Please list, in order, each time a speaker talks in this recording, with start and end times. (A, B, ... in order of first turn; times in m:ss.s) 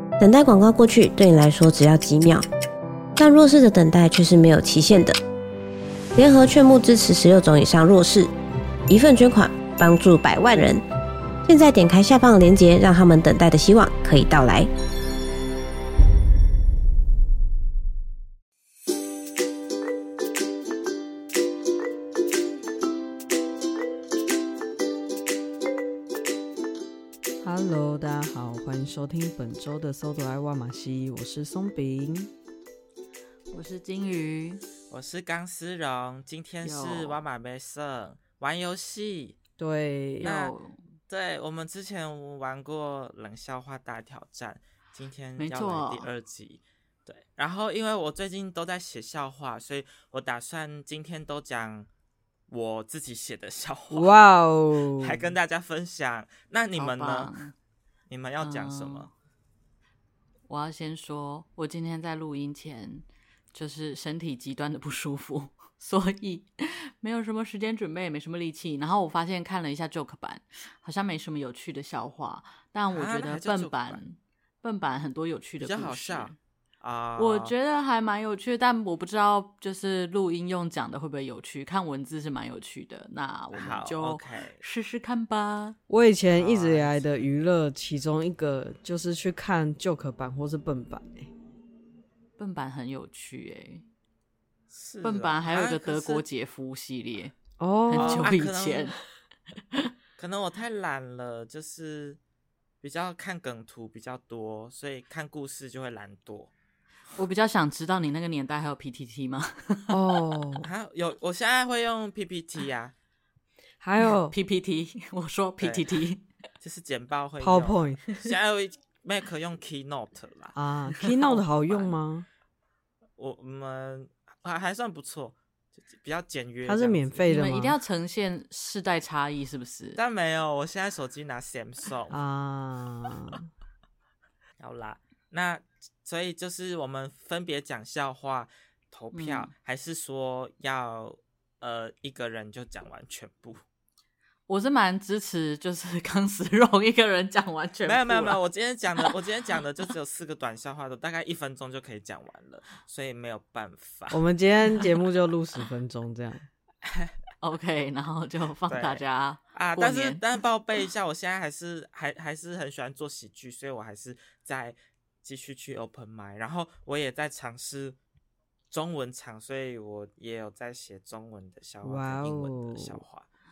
0:00.2-0:02.4 A
0:03.2-0:05.2 A
0:06.2-0:08.3 A
0:08.9-0:10.8 A
0:11.5-0:14.7 A
0:27.4-0:32.3 B
0:33.5-0:34.7 C
0:34.9-0:39.4 D
0:36.6-0:37.2 C
0:39.6-0:40.3 B
0:40.2-0:40.8 C
0:40.2-0:40.5 D
0:41.1-0:51.9 D
0:45.4-0:46.1 C
0:52.5-0:54.1 D
0:53.9-0:55.3 B
0:54.9-0:57.3 D
0:56.8-0:57.5 C
0:58.1-0:59.1 D
0:58.4-0:59.1 C
1:00.5-1:16.4 C
1:12.9-1:14.0 D
1:15.6-1:17.5 D
1:17.2-1:25.8 C
1:23.5-1:24.6 D
1:25.9-1:31.3 B
1:26.3-1:27.1 D
1:32.4-1:33.8 C
1:34.7-1:36.2 D
1:35.0-1:37.3 C
1:37.6-1:38.4 B
1:37.9-1:39.0 C
1:38.0-1:38.9 D
1:40.2-1:42.2 D
1:42.8-1:46.5 D
1:47.2-1:50.0 C
1:49.9-1:50.7 B
1:50.6-1:52.9 D
1:53.8-1:54.3 B
1:54.0-1:56.2 C
1:55.6-1:55.8 D
1:56.6-2:02.0 D
1:57.4-1:58.0 B
2:00.6-2:02.2 B
2:03.2-2:07.2 D
2:06.6-2:07.8 B
2:07.3-2:10.0 C
2:10.0-2:12.2 D
2:12.1-2:13.5 B
2:14.6-2:23.6 D
2:19.1-2:19.5 C
2:24.5-2:28.4 C
2:27.8-2:34.2 D
2:34.1-2:36.5 B
2:36.8-2:37.2 D
2:37.4-2:40.2 C
2:38.7-2:39.0 D
2:39.5-2:48.0 D
2:48.7-2:53.2 D
2:51.8-2:53.0 B